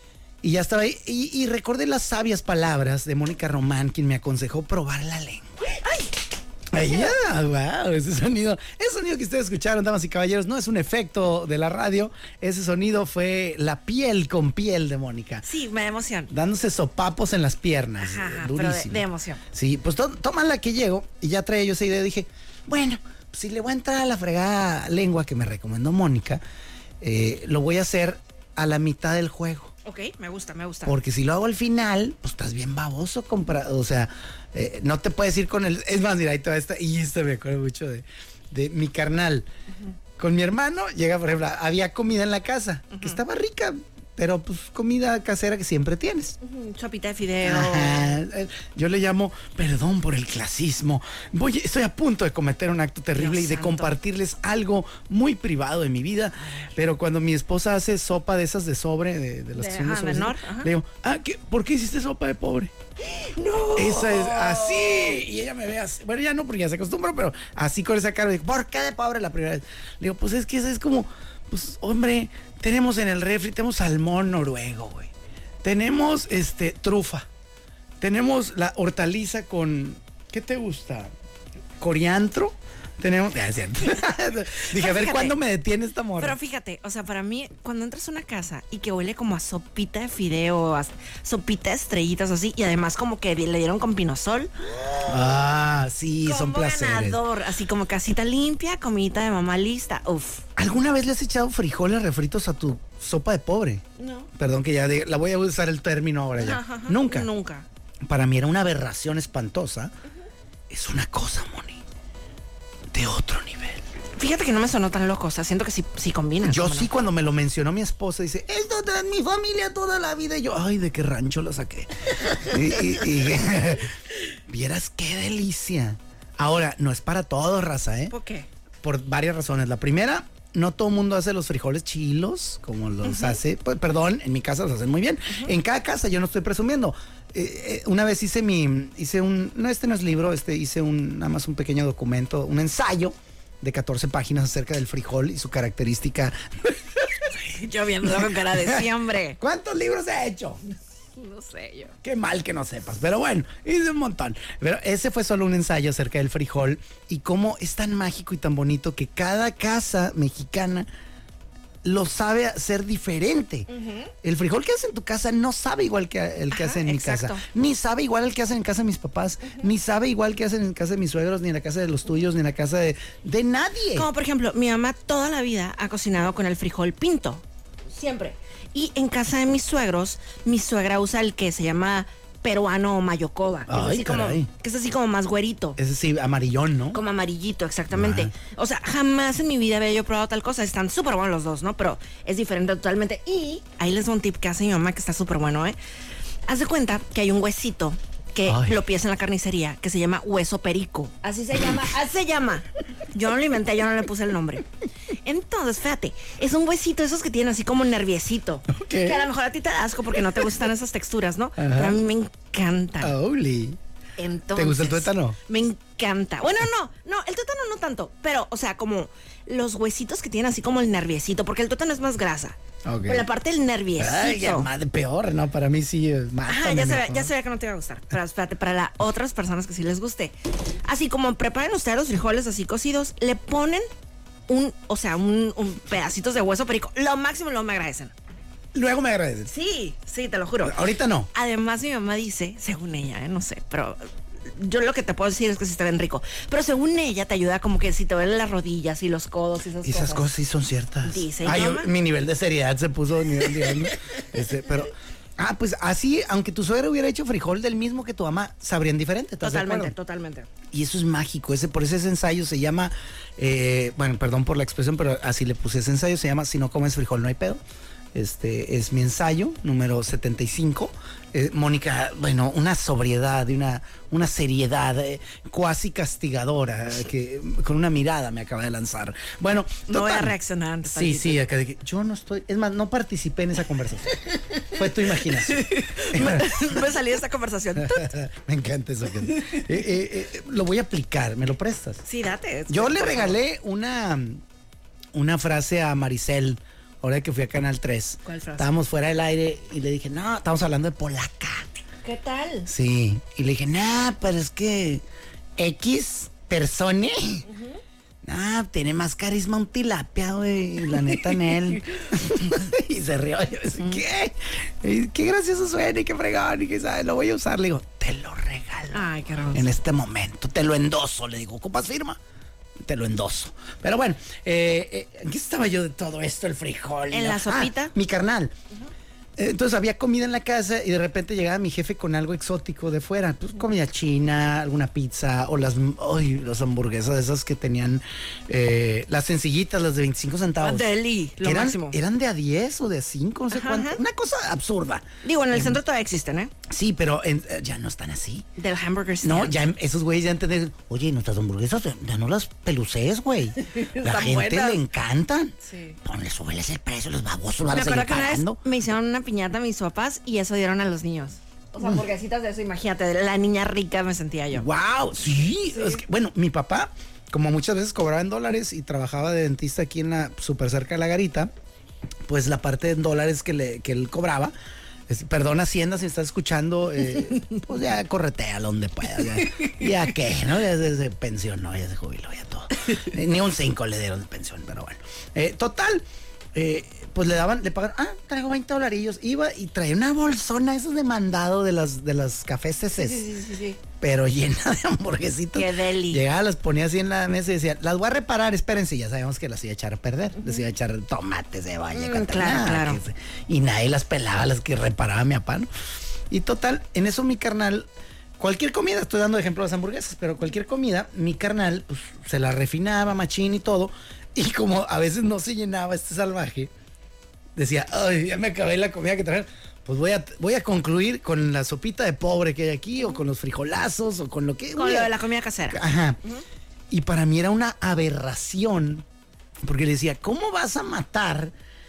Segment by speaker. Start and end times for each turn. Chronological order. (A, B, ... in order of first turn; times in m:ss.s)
0:00.4-0:05.7 A
0:05.7-0:06.1 B
0:06.7-0:15.4 A
0:06.8-0:07.1 B
0:15.4-0:16.3 B
0:16.3-0:26.4 A
0:18.0-0:19.4 B
0:27.0-0:29.7 A
0:29.8-0:31.0 B
0:30.9-0:39.5 A
0:40.2-0:46.4 A
0:42.9-0:43.2 B
0:46.4-0:48.2 B
0:47.4-1:02.7 A
0:53.2-0:54.0 B
0:56.4-0:56.7 B
0:59.6-1:00.7 B
1:03.1-1:05.2 B
1:03.8-1:15.1 A
1:15.6-1:17.3 A
1:18.0-1:21.1 A
1:21.8-1:26.4 A
1:24.7-1:25.4 B
1:26.2-1:35.2 B
1:35.1-1:37.2 A
1:36.2-1:40.4 B
1:40.6-1:43.8 A
1:44.0-1:44.3 B
1:44.4-1:47.3 A
1:46.4-1:47.7 B
1:48.0-1:49.9 A
1:50.7-1:51.8 A
1:52.9-1:53.8 A
1:54.2-1:56.9 B
1:56.4-2:04.0 A
2:04.5-2:08.1 A
2:08.1-2:08.5 B
2:08.8-2:27.3 A
2:13.0-2:13.4 B
2:15.3-2:15.5 B
2:27.3-2:29.4 B
2:28.0-2:30.6 A
2:31.2-2:32.0 B
2:32.0-2:40.9 A
2:41.8-2:43.7 A
2:43.7-2:44.1 B
2:44.2-2:54.1 A
2:46.5-2:47.4 B
2:49.4-2:49.7 B
2:53.9-3:05.8 B
3:03.7-3:04.5 A
3:05.8-3:07.0 A
3:06.9-3:15.8 B
3:07.9-3:08.3 A
3:16.5-3:33.2 B
3:18.5-3:18.8 A
3:28.7-3:29.2 A
3:31.6-3:32.0 A
3:33.0-3:33.8 A
3:34.2-3:44.7 B
3:34.6-3:35.4 A
3:42.8-3:43.3 A
3:44.0-3:47.3 A
3:46.5-3:50.3 B
3:50.8-3:53.8 B
3:54.5-3:58.1 B
3:58.7-3:59.5 A
3:59.5-4:00.8 B
4:00.6-4:01.3 A
4:01.3-4:10.3 B
4:09.8-4:19.9 A
4:11.0-4:11.9 B
4:19.4-4:20.5 B
4:20.7-4:27.6 A
4:28.1-4:46.8 A
4:39.9-4:41.4 B
4:44.8-4:48.1 B
4:47.8-4:52.0 A
4:52.0-4:53.4 B
4:52.7-4:54.4 A
4:55.1-5:01.7 A
4:58.2-4:58.7 B
5:02.0-5:02.7 B
5:02.7-5:05.0 A
5:05.6-5:07.5 A
5:07.5-5:07.8 B
5:08.2-5:22.2 A
5:18.9-5:19.7 B
5:22.8-5:28.6 A
5:27.1-5:27.9 B
5:29.4-5:45.8 A
5:40.6-5:42.0 B
5:43.5-5:44.0 B
5:45.2-5:46.5 B
5:46.7-5:48.5 A
5:48.6-5:49.6 B
5:49.2-5:58.6 A
5:53.6-5:54.8 B
5:55.6-5:56.0 B
5:57.7-6:04.7 B
6:01.8-6:02.1 A
6:04.5-6:11.5 A
6:05.7-6:06.0 B
6:12.3-6:14.5 A
6:15.1-6:33.4 A
6:33.0-6:33.8 B
6:34.0-6:45.7 A
6:35.5-6:36.2 B
6:40.4-6:40.6 B
6:41.9-6:43.0 B
6:46.3-6:56.7 A
6:57.6-7:05.2 A
7:04.8-7:06.4 B
7:05.7-7:06.2 A
7:06.9-7:09.1 A
7:09.6-7:11.5 A